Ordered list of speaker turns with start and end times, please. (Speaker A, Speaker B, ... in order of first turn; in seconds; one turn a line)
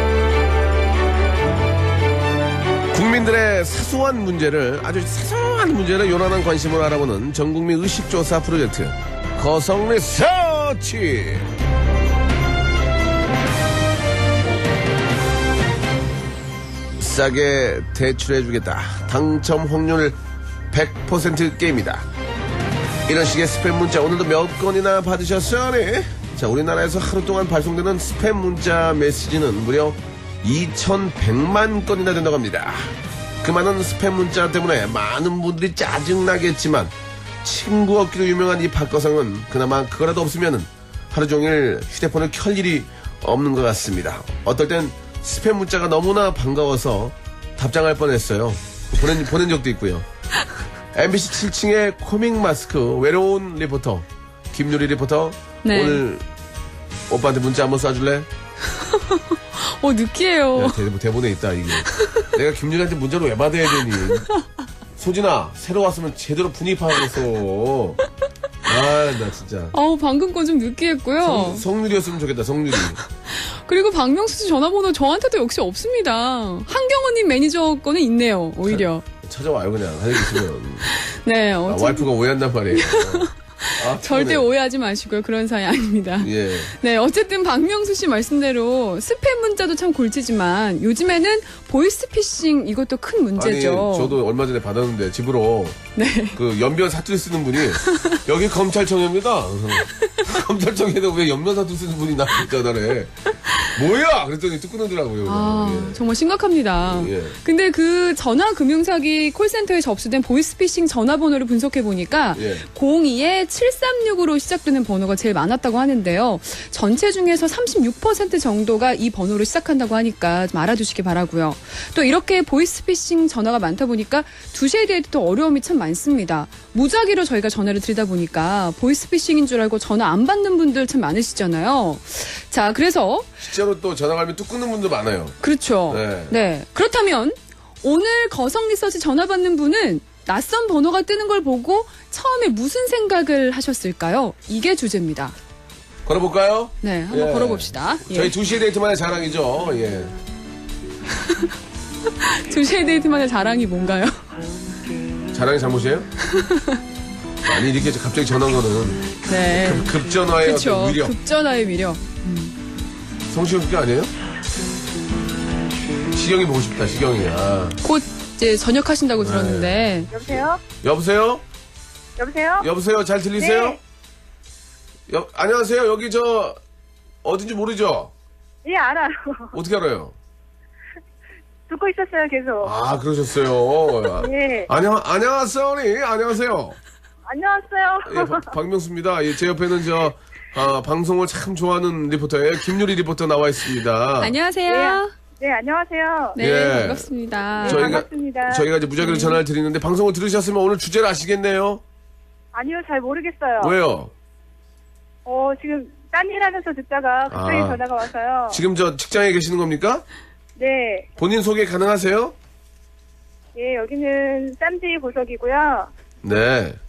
Speaker A: 2.9-11.5
Speaker A: 17.0-20.2
Speaker A: 20.7-22.1
Speaker A: 23.1-36.9
Speaker A: 37.4-50.0
Speaker A: 50.9-56.2
Speaker B: 55.6-56.0
Speaker A: 57.1-58.3
Speaker B: 58.8-60.8
Speaker A: 60.5-64.2
Speaker B: 61.9-62.2
Speaker B: 63.8-64.4
Speaker A: 65.0-68.0
Speaker A: 68.7-69.7
Speaker B: 69.7-71.7
Speaker A: 71.2-73.0
Speaker B: 72.9-79.0
Speaker A: 78.7-81.0
Speaker B: 80.4-82.1
Speaker A: 81.7-84.5
Speaker B: 82.7-94.2
Speaker A: 86.2-86.7
Speaker A: 93.3-95.8
Speaker B: 95.9-96.4
Speaker A: 96.3-106.0
Speaker B: 97.8-98.2
Speaker B: 105.2-133.4
Speaker A: 106.8-107.4
Speaker A: 112.3-112.7
Speaker A: 133.4-136.3
Speaker B: 135.4-145.3
Speaker A: 146.1-150.1
Speaker B: 146.8-148.3
Speaker B: 152.2-154.2
Speaker A: 155.3-156.1
Speaker B: 156.2-156.8
Speaker A: 157.4-161.1
Speaker B: 159.2-162.5
Speaker A: 163.3-164.1
Speaker A: 166.1-167.8
Speaker B: 167.8-170.1
Speaker A: 169.2-171.4
Speaker C: 170.1-170.6
Speaker C: 172.2-172.7
Speaker A: 172.6-173.8
Speaker C: 173.4-173.8
Speaker A: 175.1-176.6
Speaker A: 177.2-178.1
Speaker C: 178.6-179.5
Speaker A: 179.5-180.1
Speaker C: 181.7-182.7
Speaker A: 182.6-186.8
Speaker C: 184.2-184.7
Speaker C: 187.2-188.5
Speaker A: 188.1-194.3
Speaker B: 194.2-195.1
Speaker C: 194.7-196.4
Speaker B: 196.3-198.0
Speaker A: 196.4-201.8
Speaker C: 197.6-198.7
Speaker B: 199.0-199.4
Speaker C: 202.5-203.8
Speaker A: 203.6-204.1
Speaker C: 205.2-208.6
Speaker A: 207.3-207.8
Speaker A: 208.5-210.0
Speaker C: 210.6-211.1
Speaker A: 211.2-212.3
Speaker C: 213.5-215.9
Speaker A: 216.2-216.8